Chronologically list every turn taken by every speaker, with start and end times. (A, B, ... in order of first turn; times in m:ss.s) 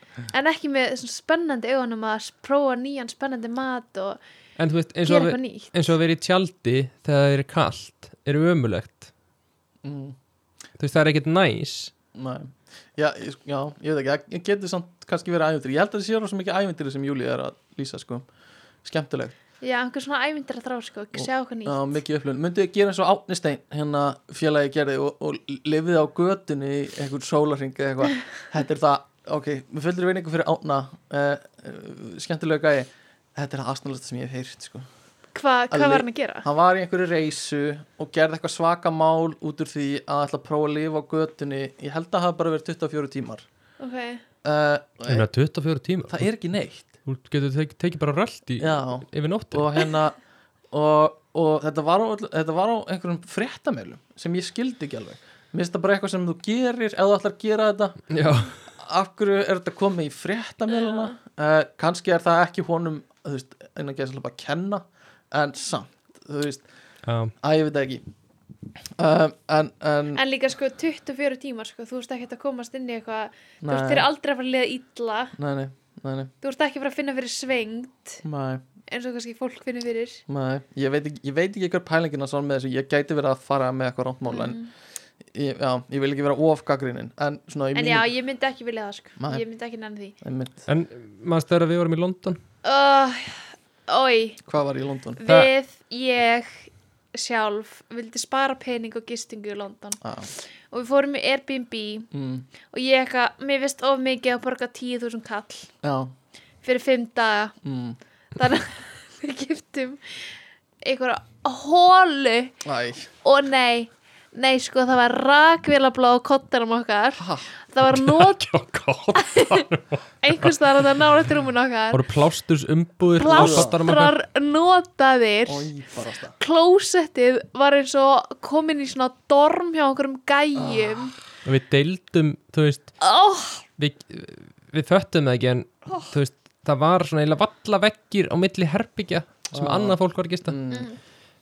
0:00.3-0:04.2 A
0:04.6-0:09.1 B
0:05.1-0:05.9 A
0:09.8-0:10.2 C
0:10.8-0:11.9 B
0:12.2-0:18.3 C
0:18.8-0:19.4 C
0:19.6-0:22.0 A
0:21.2-0:34.9 C
0:35.4-0:36.5 A
0:35.7-0:43.4 C
0:43.8-0:44.2 A
0:44.4-0:45.3 C
0:45.1-0:46.3 B
0:46.1-0:46.9 C
0:47.0-0:49.8 B
0:48.6-0:50.2 C
0:50.7-0:58.1 C
0:58.1-0:58.6 B
0:58.8-1:06.6 C
1:07.1-1:07.3 B
1:07.4-1:08.0 C
1:09.0-1:10.2 C
1:10.2-1:15.4 A
1:13.6-1:14.1 C
1:15.4-1:16.3 C
1:16.4-1:18.2 A
1:18.2-1:18.6 C
1:18.9-1:20.2 A
1:20.3-1:24.6 C
1:24.3-1:24.7 A
1:25.3-1:28.1 C
1:27.7-1:30.2 A
1:29.2-1:29.4 C
1:30.2-1:30.6 C
1:30.7-1:32.4 B
1:32.6-1:34.4 A
1:34.5-1:35.2 C
1:35.2-1:42.1 A
1:35.3-1:35.5 B
1:40.0-1:40.3 C
1:42.1-1:42.5 C
1:42.7-1:45.7 A
1:45.8-1:46.1 C
1:46.6-1:47.6 A
1:47.6-1:48.0 C
1:48.4-1:50.2 A
1:50.8-1:52.6 A
1:52.6-1:53.1 C
1:53.2-1:58.5 A
1:57.2-1:57.5 C
1:57.8-2:00.5 B
1:59.2-1:59.6 A
2:00.2-2:02.0 A
2:01.9-2:04.2 B
2:03.2-2:05.7 A
2:03.3-2:03.8 C
2:05.5-2:06.4 C
2:06.4-2:11.1 A
2:10.6-2:11.1 C
2:11.4-2:13.0 B
2:13.0-2:13.6 A
2:13.8-2:20.6 B
2:19.5-2:20.9 C
2:20.7-2:21.0 A